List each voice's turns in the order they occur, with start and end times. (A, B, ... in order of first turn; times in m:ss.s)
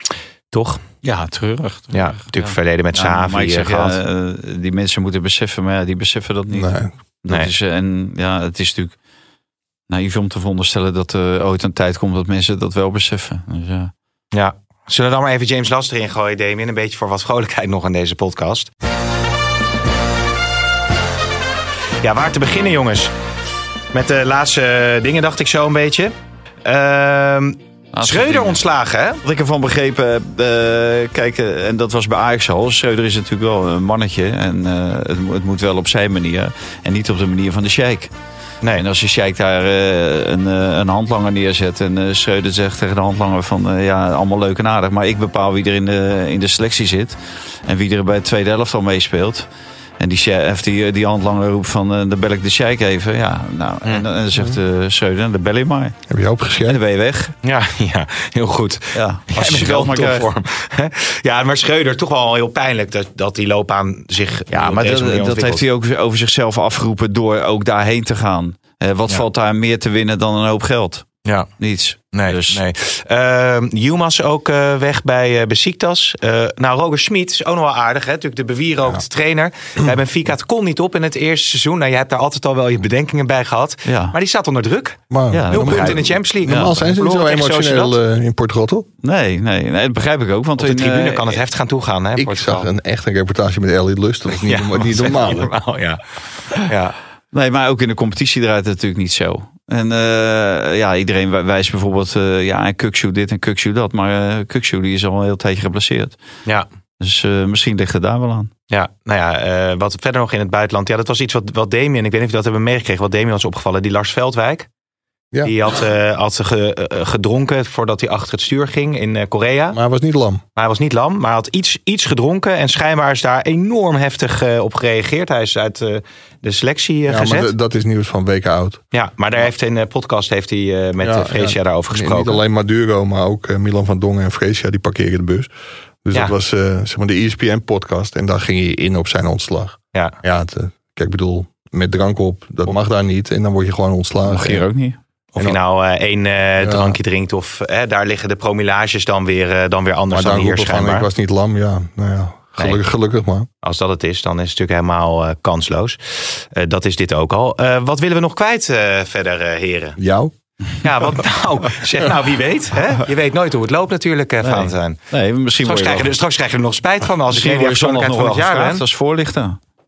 0:00.5-0:00.8 A
0:01.0-0:09.0 B
0:01.9-0:04.0 A
0:06.5-0:06.9 C
0:09.9-0:13.9 B
0:14.3-0:18.7 A
0:22.0-0:23.1 A
0:23.9-0:26.1 A
0:26.6-0:29.2 A
0:27.9-0:28.6 B
0:29.2-0:38.1 B
0:38.8-0:49.5 B
0:50.0-0:56.0 B
0:56.1-0:56.8 C
0:56.6-0:57.3 B
0:57.4-1:05.6 A
0:58.9-1:00.3 B
1:04.5-1:11.1 B
1:11.6-1:12.6 B
1:12.1-1:25.0 A
1:23.9-1:24.1 B
1:25.1-1:28.9 C
1:25.3-1:26.7 B
1:25.5-1:28.0 A
1:29.0-1:31.4 B
1:30.6-1:32.7 A
1:32.2-1:35.5 C
1:34.4-1:37.0 A
1:37.3-1:46.2 B
1:47.0-1:48.5 B
1:48.7-1:54.7 A
1:55.4-1:59.8 A
1:59.7-2:00.4 C
2:00.6-2:07.5 A
2:07.1-2:08.8 C
2:08.9-2:12.4 A
2:11.0-2:15.5 C
2:16.0-2:24.6 C
2:24.3-2:25.0 B
2:25.4-2:31.1 A
2:26.6-2:27.0 C
2:30.1-2:33.5 C
2:33.6-2:40.0 A
2:40.0-2:40.3 C
2:40.8-2:45.0 A
2:44.4-2:46.1 B
2:45.6-2:48.8 A
2:47.3-2:49.6 B